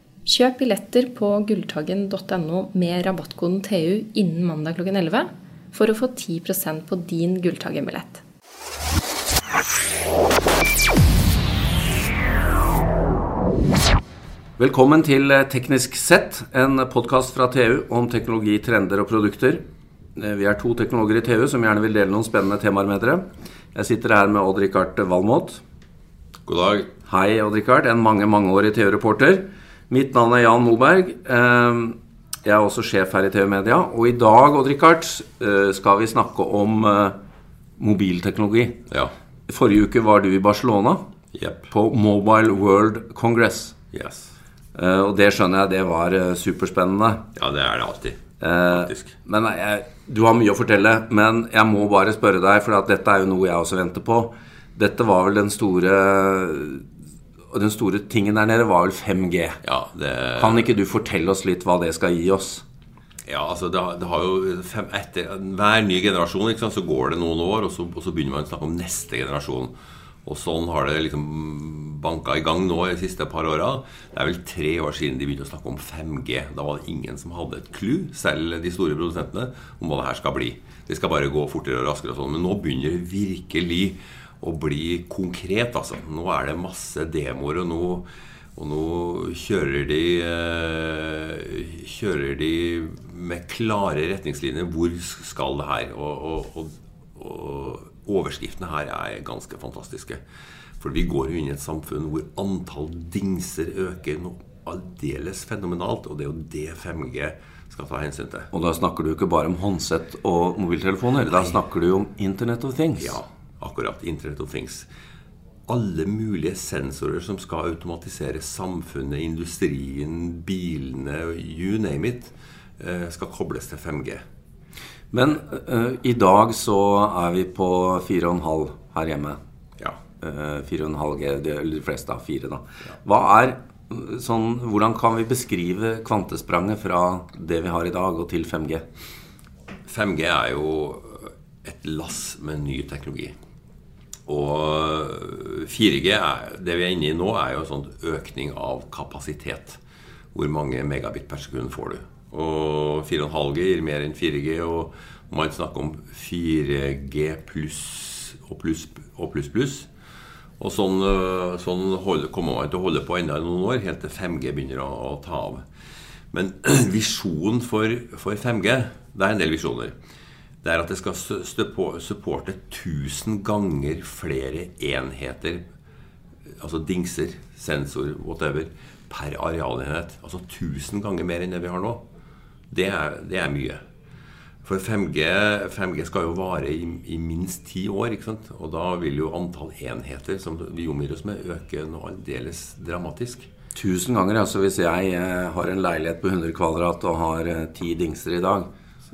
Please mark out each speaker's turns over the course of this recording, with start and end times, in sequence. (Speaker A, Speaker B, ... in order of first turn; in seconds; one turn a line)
Speaker A: 0.2-8.2
Speaker B: 14.6-19.6
Speaker B: 20.2-25.6
Speaker C: 26.5-26.9
Speaker B: 27.1-37.2
Speaker B: 37.8-38.8
Speaker B: 39.5-41.0
Speaker C: 41.3-41.7
Speaker B: 41.7-43.8
Speaker C: 43.9-44.4
Speaker B: 44.8-47.2
Speaker C: 47.4-49.1
Speaker B: 48.4-56.9
Speaker B: 57.5-59.6
Speaker C: 59.6-60.7
Speaker B: 60.4-62.6
Speaker C: 63.3-69.7
Speaker C: 70.2-100.2
Speaker C: 100.8-108.5
Speaker B: 108.5-113.2
Speaker C: 111.2-111.5
Speaker C: 113.0-114.9
Speaker C: 115.7-124.2
Speaker B: 125.1-129.4
Speaker B: 130.2-138.8
Speaker C: 139.9-143.3
Speaker C: 144.3-149.8
Speaker C: 150.3-159.9
Speaker C: 160.6-165.6
Speaker C: 166.3-169.9
Speaker C: 170.6-175.6
Speaker C: 176.6-182.0
Speaker C: 182.7-183.8
Speaker C: 184.7-193.5
Speaker B: 193.8-198.7